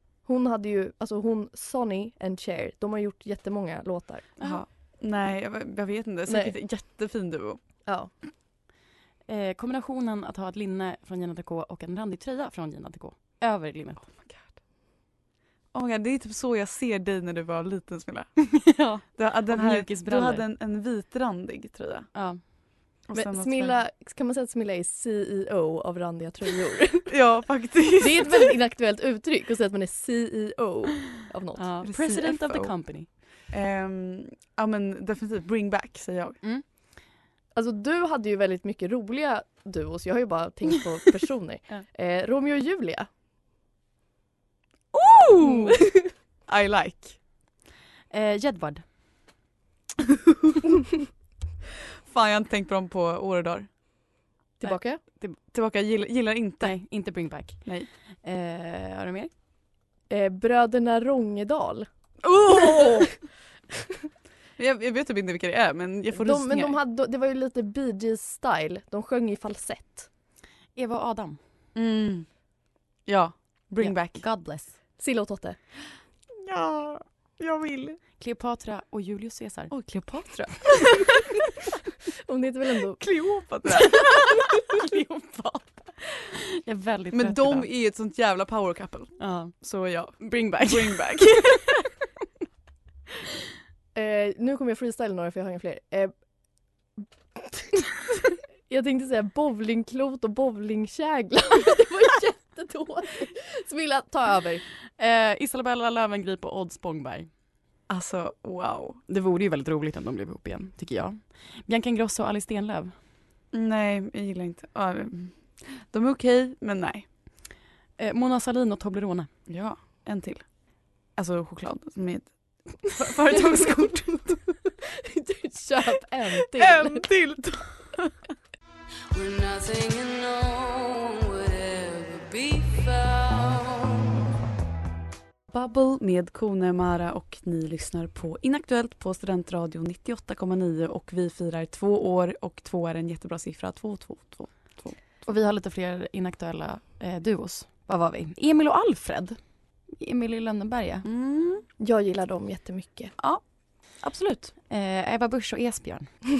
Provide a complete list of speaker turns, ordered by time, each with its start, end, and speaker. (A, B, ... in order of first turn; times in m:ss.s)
0:00.2-0:04.4 A
0:04.4-0:07.6 B
0:06.3-0:06.5 A
0:09.3-0:14.1 C
0:14.2-0:14.6 B
0:15.7-0:18.4 B
0:18.5-0:20.4 C
0:19.1-0:22.1 B
0:22.1-0:22.4 C
0:23.1-0:23.8 B
0:23.1-0:27.1 A
0:27.1-0:28.5 B
0:28.0-0:31.8 A
0:31.6-0:33.1 C
0:31.8-0:32.7 B
0:33.5-0:36.4 B
0:37.5-0:43.1 A
0:44.9-0:45.8 B
0:46.5-0:47.2 B
0:48.1-0:48.8 C
0:50.3-0:50.6 B
0:52.0-0:53.7 B
0:54.6-0:55.0 A
0:54.6-0:55.4 C
0:55.5-0:56.8 B
0:56.6-0:57.7 C
0:58.2-0:59.3 C
1:00.1-1:01.9 A
1:02.2-1:03.1 B
1:02.6-1:03.1 A
1:04.6-1:06.8 B
1:06.1-1:10.1 A
1:10.8-1:11.4 C
1:11.7-1:12.3 B
1:13.0-1:14.2 B
1:13.8-1:14.8 C
1:15.0-1:15.6 A
1:16.3-1:18.0 B
1:18.2-1:19.7 C
1:19.7-1:21.2 B
1:22.2-1:23.0 A
1:23.0-1:24.3 B
1:24.5-1:27.7 C
1:27.1-1:31.8 B
1:29.2-1:29.5 C
1:30.2-1:31.8 C
1:33.9-1:36.1 A
1:37.4-1:37.9 A
1:38.7-1:44.6 A
1:45.0-1:47.3 C
1:47.9-1:49.0 B
1:49.1-1:52.9 C
1:53.5-1:57.1 B
1:58.0-1:59.3 C
1:59.5-2:00.4 B
2:01.2-2:04.4 B
2:05.0-2:07.0 A
2:06.5-2:08.1 B
2:09.1-2:14.2 D
2:15.5-2:25.0 B
2:25.2-2:29.4 C
2:30.0-2:31.0 C
2:31.0-2:31.6 B
2:31.8-2:33.1 A
2:34.0-2:34.5 B
2:34.7-2:36.1 C